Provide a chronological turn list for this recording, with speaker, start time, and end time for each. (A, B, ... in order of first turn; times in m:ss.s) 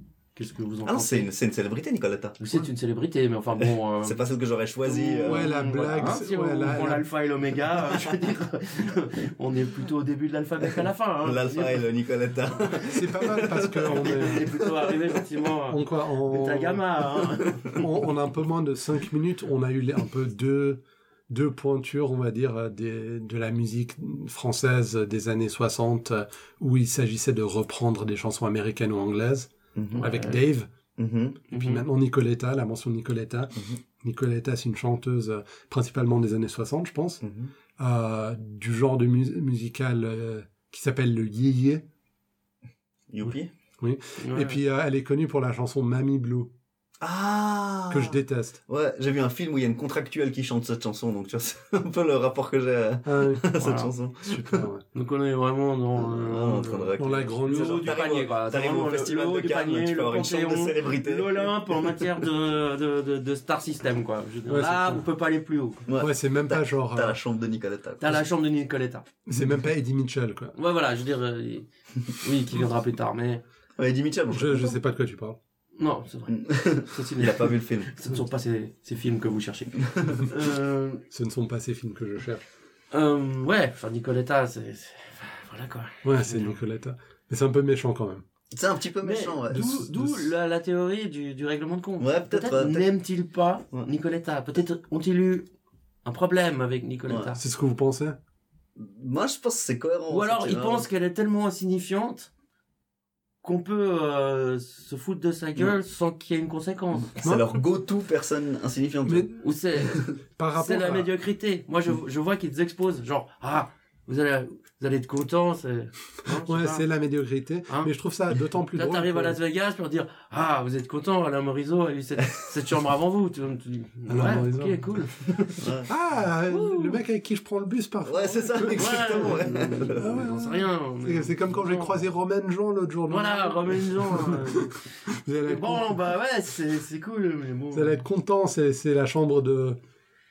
0:00.4-0:01.3 A
0:00.8-0:02.4 B
0:02.4-0:04.2 A
0:03.6-0:06.1 B
0:04.8-0:11.9 A
0:05.2-0:07.0 C
0:07.9-0:08.2 B
0:11.2-0:15.0 B
0:12.6-0:17.9 A
0:12.9-0:14.5 C
0:15.7-0:16.8 C
0:17.8-0:30.7 C
0:29.7-0:30.1 B
0:29.9-0:30.4 A
0:31.0-0:31.4 B
0:31.5-0:31.8 A
0:31.5-0:37.2 C
0:37.2-0:37.5 B
0:37.8-0:41.8 C
0:43.1-0:43.5 B
0:43.8-0:46.5 C
0:44.2-0:44.6 A
0:47.0-0:54.7 B
0:47.9-0:48.6 C
0:53.0-0:53.4 C
0:53.5-0:53.9 A
0:54.3-0:54.8 C
0:54.9-1:05.8 A
0:56.0-1:02.2 B
0:57.0-0:57.9 C
1:04.5-1:05.0 C
1:05.9-1:08.2 B
1:06.0-1:07.2 C
1:08.0-1:09.1 A
1:09.2-1:10.6 C
1:10.6-1:13.4 A
1:13.8-1:14.7 B
1:14.3-1:15.4 C
1:15.8-1:21.0 A
1:16.3-1:17.9 B
1:19.8-1:20.2 B
1:21.1-1:22.4 C
1:22.9-1:26.6 A
1:26.0-1:28.2 C
1:28.5-1:29.8 B
1:29.0-1:35.5 A
1:29.5-1:30.3 C
1:32.0-1:32.8 B
1:36.0-1:37.4 A
1:37.4-1:38.2 C
1:38.8-1:40.9 B
1:40.1-1:42.3 A
1:43.4-1:47.1 A
1:47.0-1:50.1 B
1:49.4-1:56.9 A
1:50.4-1:51.1 C
1:56.4-1:59.4 C
1:58.7-2:05.7 A
2:04.1-2:05.1 C
2:05.6-2:05.9 B
2:05.9-2:09.3 C
2:06.5-2:07.0 A
2:08.0-2:10.3 B
2:08.7-2:12.0 A
2:10.0-2:15.9 C
2:13.1-2:14.8 A
2:15.4-2:18.0 A
2:17.7-2:19.8 C